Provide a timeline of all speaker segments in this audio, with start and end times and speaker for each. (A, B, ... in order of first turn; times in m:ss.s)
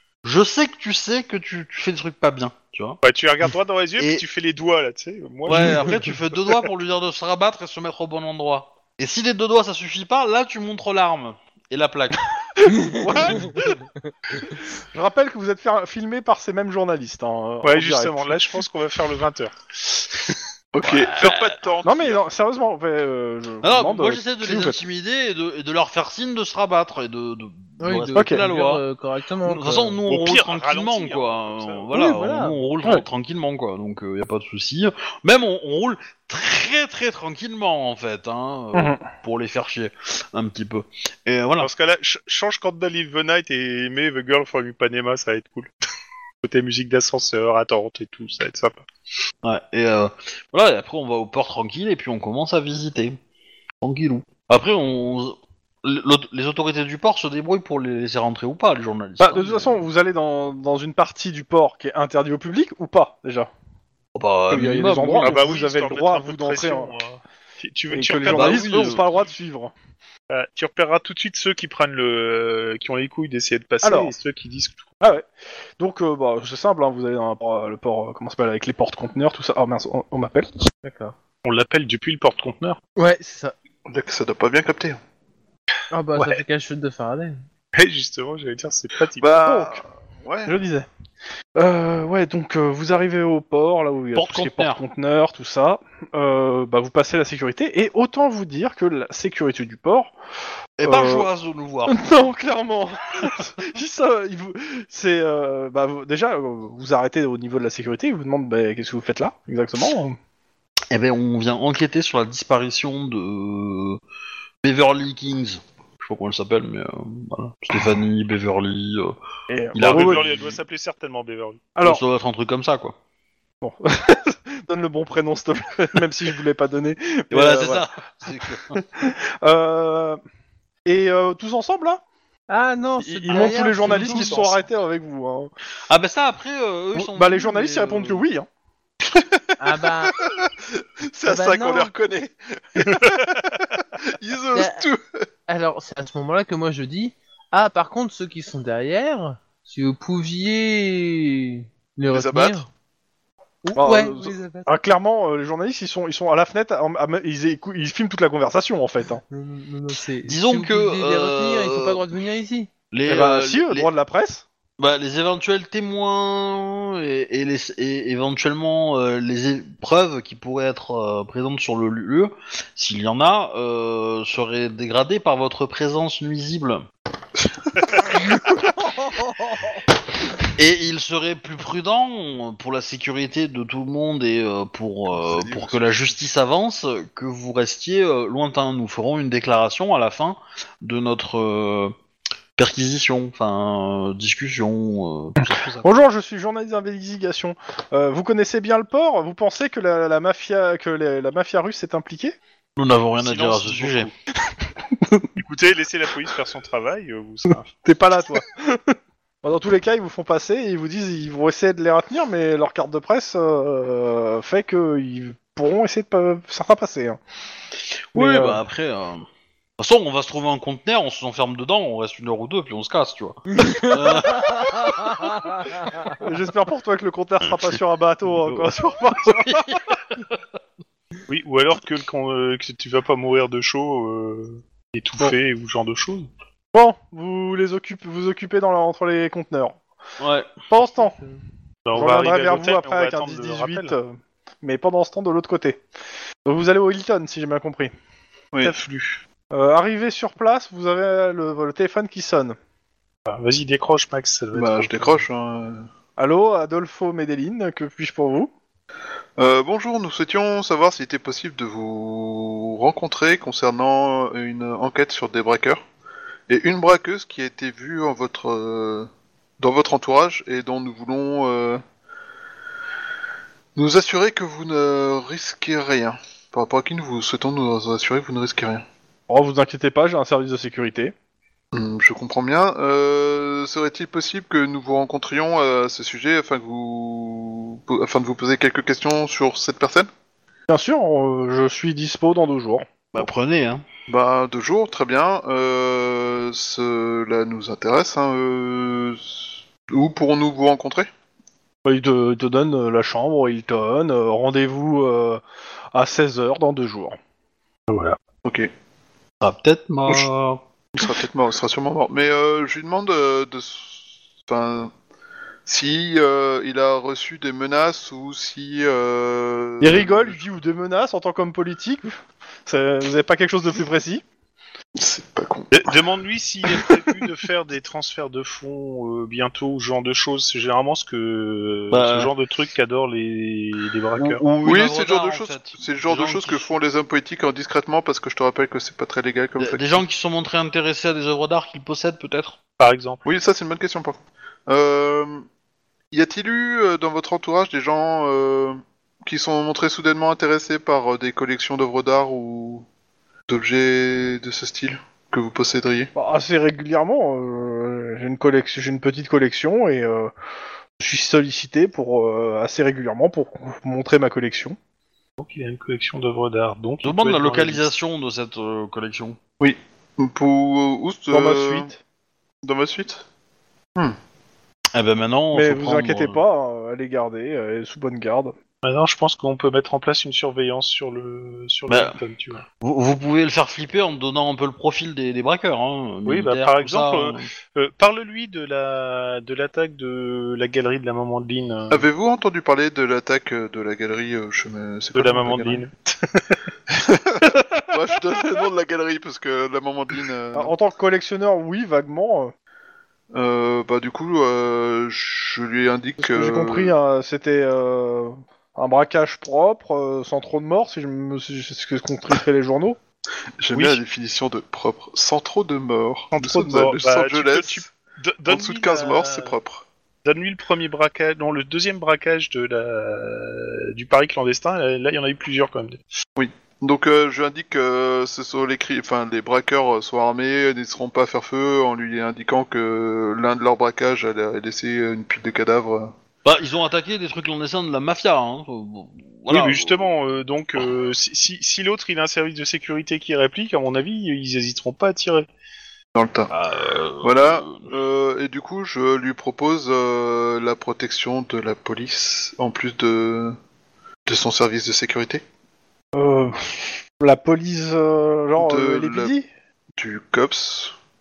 0:00.2-0:03.0 A
0:03.0-0:06.6 B
0:04.0-0:04.2 A
0:05.4-0:12.3 A
0:12.6-0:13.8 C
0:12.8-0:13.6 D
0:14.4-0:18.4 C
0:17.6-0:19.6 B
0:20.7-0:22.2 E
0:20.8-0:21.6 A
0:21.8-0:24.8 C
0:23.6-0:28.8 A
0:27.8-0:30.0 D
0:28.1-0:28.4 C
0:29.4-0:41.7 A
0:30.1-0:31.9 B
0:31.9-0:32.6 D
0:38.7-0:39.0 C
0:41.6-0:45.7 B
0:46.4-0:48.8 B
0:49.4-0:53.2 A
0:53.8-0:59.8 A
0:59.2-1:03.5 C
1:04.2-1:05.4 A
1:04.5-1:06.9 C
1:05.2-1:09.0 B
1:07.9-1:09.7 C
1:08.3-1:09.0 A
1:10.3-1:14.9 B
1:13.8-1:14.1 C
1:15.0-1:15.3 C
1:15.8-1:20.5 C
1:20.8-1:21.1 D
1:21.4-1:22.8 B
1:23.0-1:23.5 D
1:23.9-1:25.0 E
1:25.9-1:27.4 D
1:26.2-1:26.4 B
1:27.7-1:29.3 B
1:29.2-1:30.5 E
1:29.4-1:29.8 C
1:30.4-1:30.9 C
1:31.6-1:40.1 C
1:34.2-1:34.8 A
1:40.8-1:42.0 A
1:40.8-1:41.3 C
1:41.9-1:50.2 C
1:50.9-1:54.0 A
1:54.6-1:59.2 A
1:59.5-2:00.3 C
1:59.7-2:00.6 A
1:59.8-2:01.7 B
2:01.8-2:02.0 C
2:01.8-2:03.0 A
2:03.6-2:07.8 C
2:07.3-2:08.8 A
2:08.7-2:10.2 C
2:10.9-2:12.0 C
2:12.5-2:14.6 D
2:13.0-2:15.5 C
2:13.3-2:14.4 B
2:15.9-2:18.2 A
2:17.0-2:18.5 C
2:19.0-2:25.0 E
2:19.6-2:20.2 D
2:21.2-2:21.9 D
2:24.5-2:24.8 D
2:25.5-2:32.7 D
2:32.1-2:32.6 E
2:33.6-2:34.8 D
2:33.8-2:39.2 C
2:39.2-2:42.7 D
2:40.2-2:42.1 A
2:42.9-2:43.9 A
2:43.1-2:44.4 C
2:44.8-2:56.8 A
3:00.6-3:11.9 A
3:05.1-3:06.1 E
3:12.6-3:16.0 A
3:15.8-3:22.4 C
3:22.8-3:24.1 A
3:23.2-3:24.1 B
3:25.0-3:25.3 C
3:25.4-3:27.7 B
3:27.8-3:37.2 C
3:38.1-3:39.3 A
3:38.2-3:38.6 C
3:39.8-3:45.3 A
3:43.5-3:46.2 D
3:46.2-3:49.6 C
3:49.2-3:49.8 A
3:51.3-3:56.3 B
3:56.7-3:59.8 C
4:00.2-4:00.5 A
4:00.7-4:01.2 C
4:01.0-4:01.3 D
4:01.8-4:04.0 B
4:01.9-4:05.8 C
4:06.4-4:07.9 C
4:08.6-4:09.2 B
4:09.5-4:12.6 C
4:13.3-4:15.2 B
4:14.5-4:15.9 E
4:16.2-4:18.5 C
4:19.4-4:25.8 E
4:26.5-4:29.1 E
4:29.6-4:31.8 E
4:33.8-4:38.8 E
4:39.3-4:41.1 C
4:41.7-4:50.1 E
4:50.7-4:52.9 C
4:53.1-4:53.8 A
4:54.1-5:01.1 E
5:01.8-5:05.4 C
5:05.9-5:07.2 C
5:07.9-5:08.2 B
5:08.4-5:08.7 E
5:09.4-5:10.6 A
5:11.0-5:14.9 E
5:15.7-5:20.4 E
5:19.8-5:24.2 C
5:25.0-5:25.9 E
5:25.7-5:34.4 B
5:31.9-5:32.3 A
5:34.2-5:36.7 A
5:34.6-5:40.0 E
5:39.6-5:42.6 A
5:42.8-5:43.2 B
5:43.2-5:45.4 E
5:46.1-5:52.9 E
5:53.5-5:56.1 E
5:56.2-6:00.3 C
6:01.0-6:04.8 C
6:05.4-6:07.9 B
6:07.0-6:09.4 A
6:09.6-6:11.9 E
6:11.3-6:12.0 C
6:12.6-6:13.2 E
6:14.9-6:16.4 A
6:15.5-6:18.5 C
6:18.8-6:22.6 B
6:21.9-6:22.2 A
6:22.8-6:27.5 A
6:26.3-6:32.0 B
6:31.9-6:35.8 E
6:35.1-6:36.6 B
6:37.0-6:40.7 E
6:40.5-6:42.5 C
6:43.3-6:46.9 E
6:46.2-6:53.0 C
6:53.6-6:57.9 E
6:53.7-6:54.0 B
6:56.4-6:59.6 B
6:58.5-6:59.9 E
7:00.2-7:06.0 B
7:06.4-7:16.2 E
7:16.4-7:20.1 A
7:19.5-7:25.5 B
7:26.2-7:26.5 E
7:26.5-7:27.8 A
7:27.2-7:33.6 E
7:34.3-7:35.4 E
7:36.1-7:39.5 C
7:38.6-7:39.3 E
7:40.0-7:40.9 E